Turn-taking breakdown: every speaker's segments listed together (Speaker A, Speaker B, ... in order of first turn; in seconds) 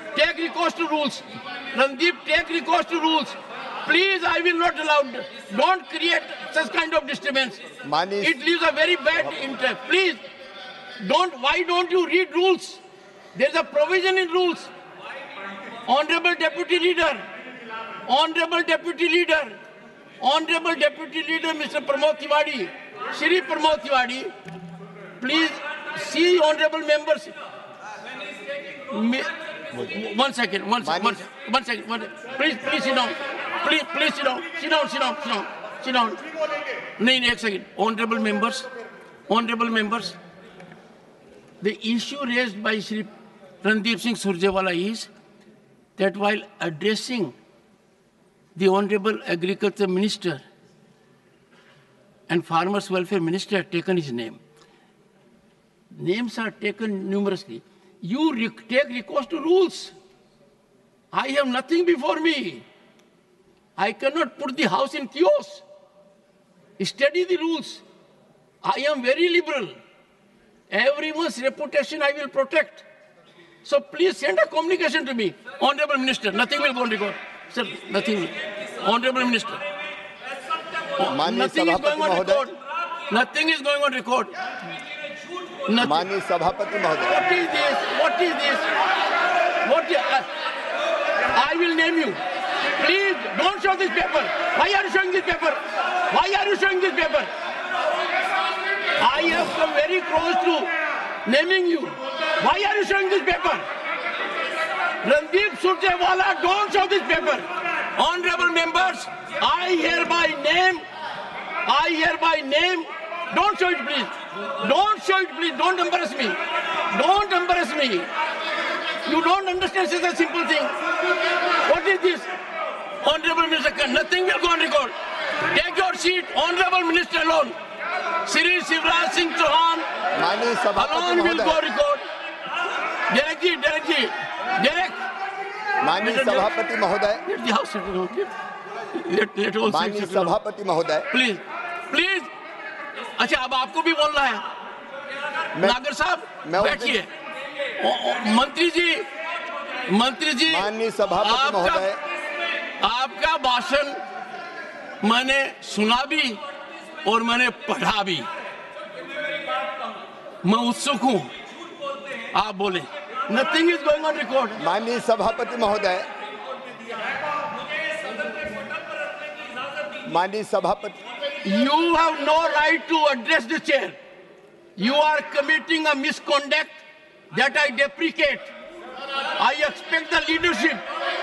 Speaker A: 0.1-7.6, 8.2-10.2, 11.0-12.8, 13.3-14.7, 15.9-17.2, 18.1-19.5, 20.2-24.3, 25.2-27.3, 28.9-36.2, 37.0-38.7, 39.3-40.2, 41.6-43.1, 43.6-45.1, 46.0-47.3, 48.5-50.4, 52.3-54.4, 55.9-59.9, 61.1-62.6, 63.8-65.6, 66.8-67.8, 68.6-69.7, 70.7-72.8, 73.6-79.6, 81.0-82.6, 83.1-84.3, 85.7-86.1, 87.1-88.7, 89.6-90.2, 91.3-92.2, 92.7-95.6, 96.1-97.3, 99.0-100.7, 101.2-103.6, 105.0-110.8, 111.7-118.1, 119.0-120.7, 121.6-122.3, 123.0-127.5, 128.2-129.8, 130.8-132.0, 133.1-135.0, 136.0-136.5, 137.2-138.3, 138.9-140.3, 141.1-142.3, 143.2-144.4, 145.6-147.1, 147.8-149.1, 149.9-150.7, 151.2-151.9, 152.8-154.0, 155.0-156.4, 157.0-158.3, 160.4-161.3, 162.3-164.6, 171.4-173.9, 174.8-178.5, 179.3-180.8
Speaker B: 7.8-8.3, 30.8-31.2, 81.0-82.4, 85.8-87.2, 130.2-131.6, 135.8-137.2, 139.7-141.0, 146.4-147.0, 150.5-152.0, 164.6-166.1, 170.1-171.0